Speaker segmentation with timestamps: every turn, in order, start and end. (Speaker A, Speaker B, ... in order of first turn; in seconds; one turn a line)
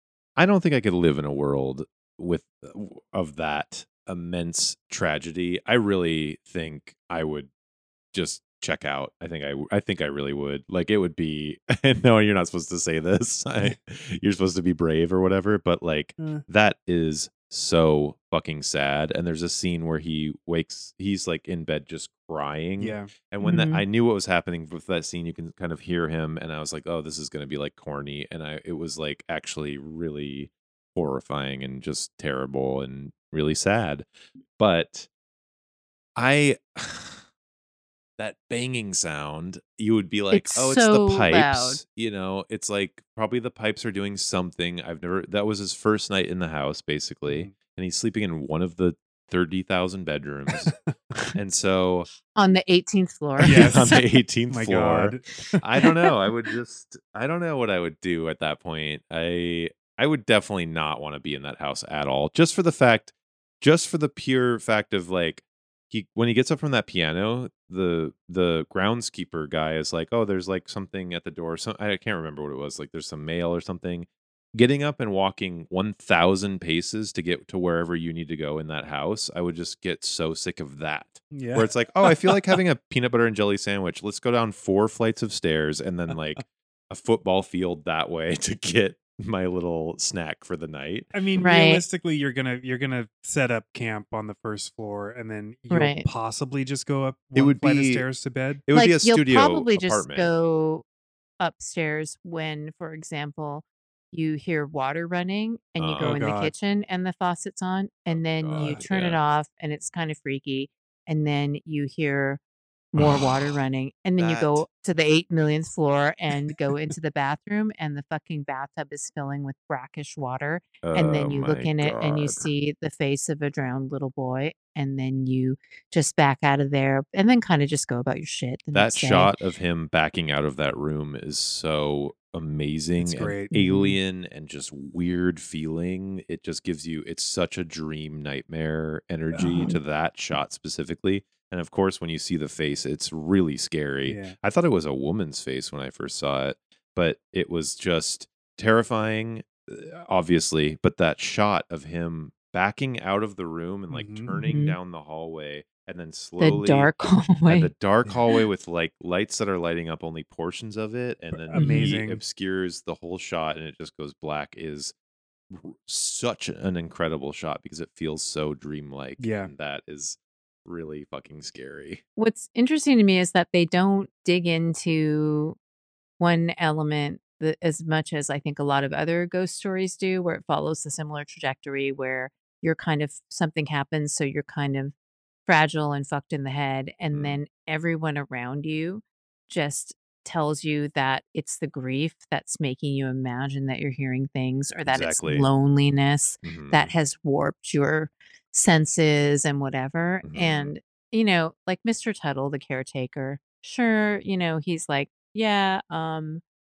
Speaker A: 0.4-7.5
Speaker A: 8.1-35.1
Speaker B: 16.2-16.4
Speaker B: 22.8-23.1
Speaker C: 23.4-23.8
Speaker A: 36.2-37.2
Speaker A: 38.2-50.7
Speaker C: 40.3-41.8
Speaker B: 47.3-47.5
Speaker B: 50.5-51.3
Speaker A: 51.4-52.1
Speaker C: 52.4-53.9
Speaker A: 53.4-91.2
Speaker B: 53.4-55.9
Speaker B: 81.3-82.5
Speaker B: 91.1-98.6
Speaker C: 91.4-91.8
Speaker C: 95.7-96.1
Speaker A: 97.3-98.1
Speaker A: 98.7-100.3
Speaker C: 98.7-100.8
Speaker C: 101.4-112.4
Speaker A: 105.8-106.2
Speaker B: 106.0-106.5
Speaker A: 108.1-109.2
Speaker B: 108.6-108.8
Speaker C: 112.9-129.4
Speaker A: 113.0-113.6
Speaker A: 114.2-114.7
Speaker A: 120.8-122.5
Speaker A: 128.7-156.9
Speaker B: 133.0-133.5
Speaker C: 133.5-134.0
Speaker B: 139.3-139.8
Speaker B: 144.1-144.4
Speaker B: 153.9-154.4
Speaker C: 154.4-154.8
Speaker C: 156.4-157.7
Speaker A: 157.5-164.9
Speaker B: 161.3-162.2
Speaker C: 161.6-161.9
Speaker A: 165.5-172.0
Speaker B: 169.2-169.5
Speaker C: 172.2-175.6
Speaker C: 176.2-184.9
Speaker C: 185.5-206.4
Speaker A: 187.1-187.4
Speaker A: 194.9-195.5
Speaker A: 196.4-196.9
Speaker A: 200.2-200.7